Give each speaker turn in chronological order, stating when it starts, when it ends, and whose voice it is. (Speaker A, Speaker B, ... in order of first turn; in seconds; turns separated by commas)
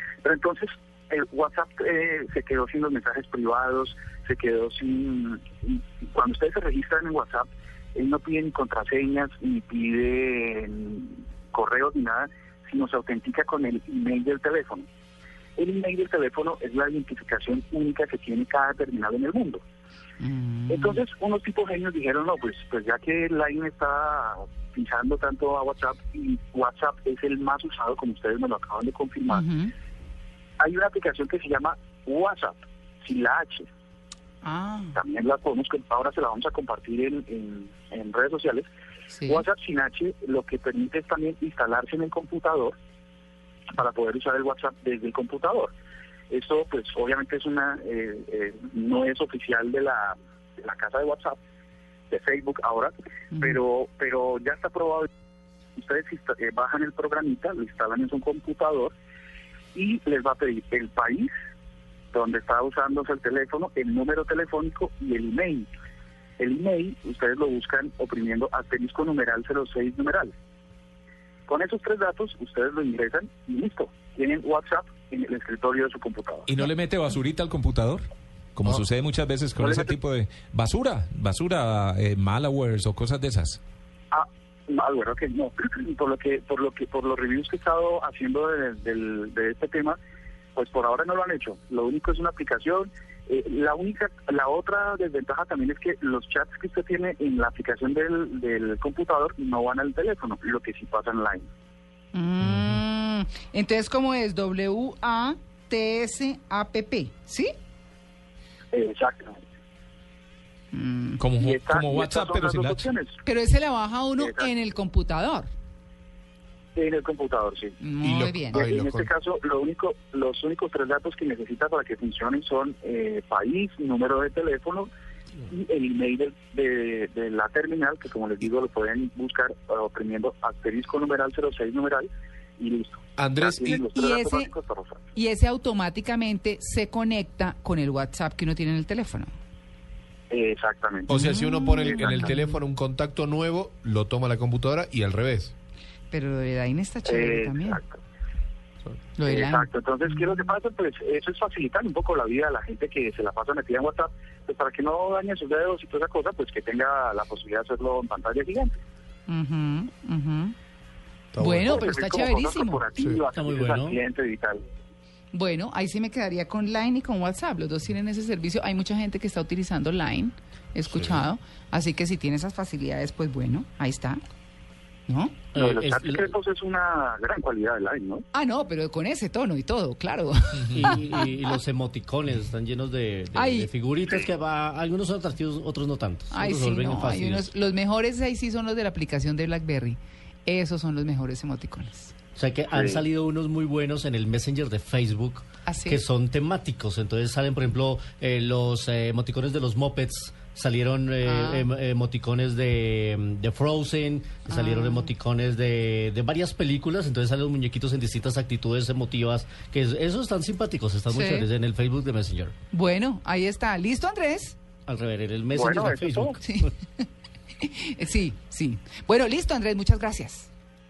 Speaker A: 0.2-14.8, Speaker A: 15.6-19.6, Speaker B: 20.2-21.0, Speaker A: 20.7-29.4, Speaker B: 29.3-29.7, Speaker A: 30.6-33.7, Speaker B: 34.4-35.0, Speaker A: 34.9-38.7, Speaker B: 39.1-39.4, Speaker A: 39.2-42.7, Speaker A: 43.7-45.7, Speaker A: 46.3-51.4, Speaker A: 52.1-55.1, Speaker A: 55.8-58.9, Speaker A: 59.7-61.3, Speaker A: 62.1-65.7, Speaker A: 66.4-70.3, Speaker A: 71.5-76.5, Speaker C: 76.5-83.6, Speaker A: 79.6-80.0, Speaker A: 84.1-90.0, Speaker A: 90.5-101.5, Speaker B: 102.1-107.5, Speaker C: 102.4-102.7, Speaker A: 108.7-109.4, Speaker B: 110.7-111.2, Speaker C: 111.2-112.9, Speaker A: 111.4-113.2, Speaker B: 113.2-115.5, Speaker A: 114.2-114.5, Speaker A: 116.8-117.8, Speaker B: 117.8-118.6, Speaker D: 118.0-119.1, Speaker A: 118.5-124.9, Speaker A: 125.5-135.1, Speaker D: 133.2-133.6, Speaker B: 133.8-134.5, Speaker B: 135.1-139.3, Speaker A: 140.3-141.2, Speaker B: 141.1-142.6, Speaker D: 141.1-145.5, Speaker A: 141.8-142.2, Speaker B: 146.1-147.8, Speaker A: 147.1-148.0, Speaker B: 149.1-150.5, Speaker A: 149.2-158.8, Speaker B: 159.3-160.5, Speaker D: 161.3-161.8, Speaker B: 161.4-162.8, Speaker A: 161.6-164.6, Speaker E: 163.0-164.0, Speaker B: 165.3-174.2, Speaker B: 175.1-175.4, Speaker E: 175.5-176.3, Speaker A: 175.5-178.2, Speaker B: 178.3-181.2, Speaker E: 180.7-187.5, Speaker B: 183.3-183.7, Speaker B: 186.3-192.1, Speaker E: 192.3-212.5, Speaker A: 192.7-193.0, Speaker B: 195.7-196.0, Speaker B: 201.2-201.7, Speaker B: 204.5-205.1, Speaker B: 211.1-211.5, Speaker B: 212.7-214.6, Speaker E: 214.8-216.7, Speaker A: 215.5-216.4, Speaker B: 216.4-217.0, Speaker B: 217.6-220.5